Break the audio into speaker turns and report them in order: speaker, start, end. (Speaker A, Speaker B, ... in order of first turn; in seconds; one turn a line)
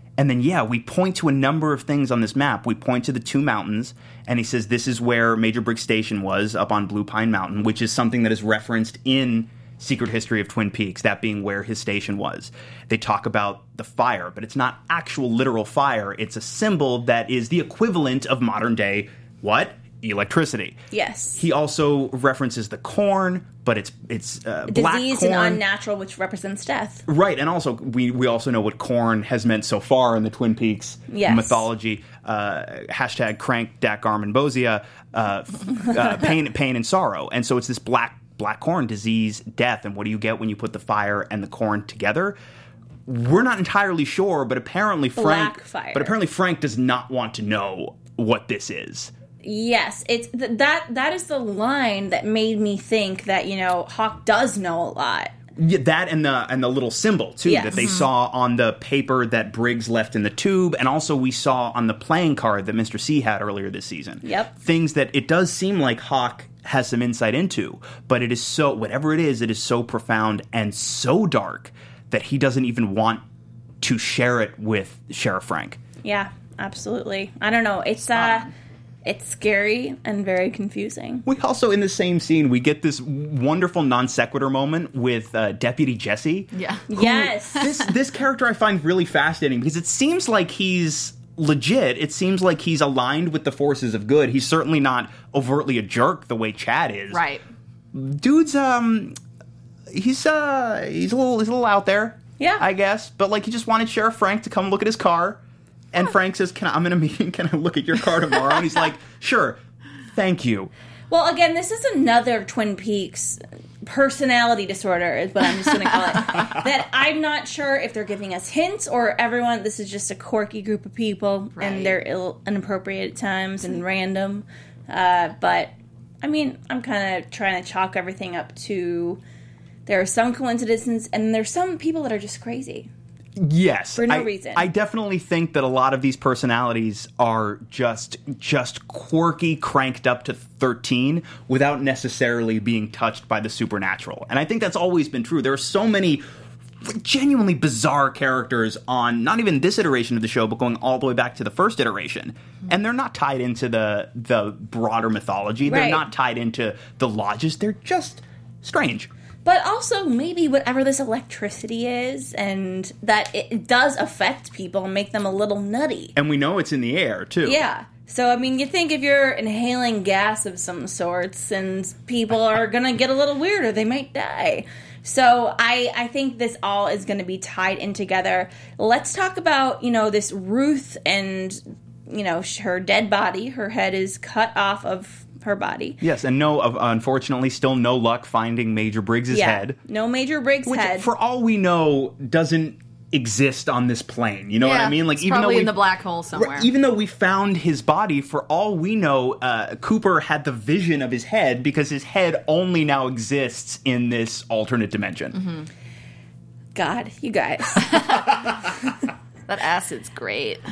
Speaker A: 0.2-20.8
Speaker B: 20.9-21.4
Speaker A: 21.4-25.6
Speaker B: 24.7-27.1
Speaker A: 27.1-42.4
Speaker B: 31.1-31.6
Speaker A: 43.1-49.1
Speaker B: 45.2-46.1
Speaker B: 49.4-55.3
Speaker A: 55.6-73.2
Speaker B: 57.5-57.9
Speaker C: 57.8-58.1
Speaker B: 64.2-64.5
Speaker A: 73.8-75.8
Speaker B: 76.0-78.5
Speaker C: 78.2-78.5
Speaker B: 79.0-81.2
Speaker A: 81.2-97.2
Speaker C: 86.5-86.9
Speaker B: 86.9-87.8
Speaker C: 97.1-97.4
Speaker A: 97.9-99.2
Speaker A: 99.9-105.4
Speaker B: 102.4-102.6
Speaker A: 105.9-110.7
Speaker B: 111.1-129.2
Speaker C: 121.6-122.0
Speaker B: 129.9-132.9
Speaker A: 133.4-146.2
Speaker B: 134.0-134.7
Speaker A: 146.8-159.1
Speaker B: 155.7-156.0
Speaker B: 159.4-166.1
Speaker A: 166.2-167.6
Speaker B: 167.4-186.0
Speaker A: 186.0-189.8
Speaker B: 189.3-191.1
Speaker A: 190.7-195.8
Speaker C: 194.6-196.7
Speaker A: 196.3-205.4
Speaker C: 205.4-205.7
Speaker B: 206.8-208.2
Speaker C: 209.5-210.6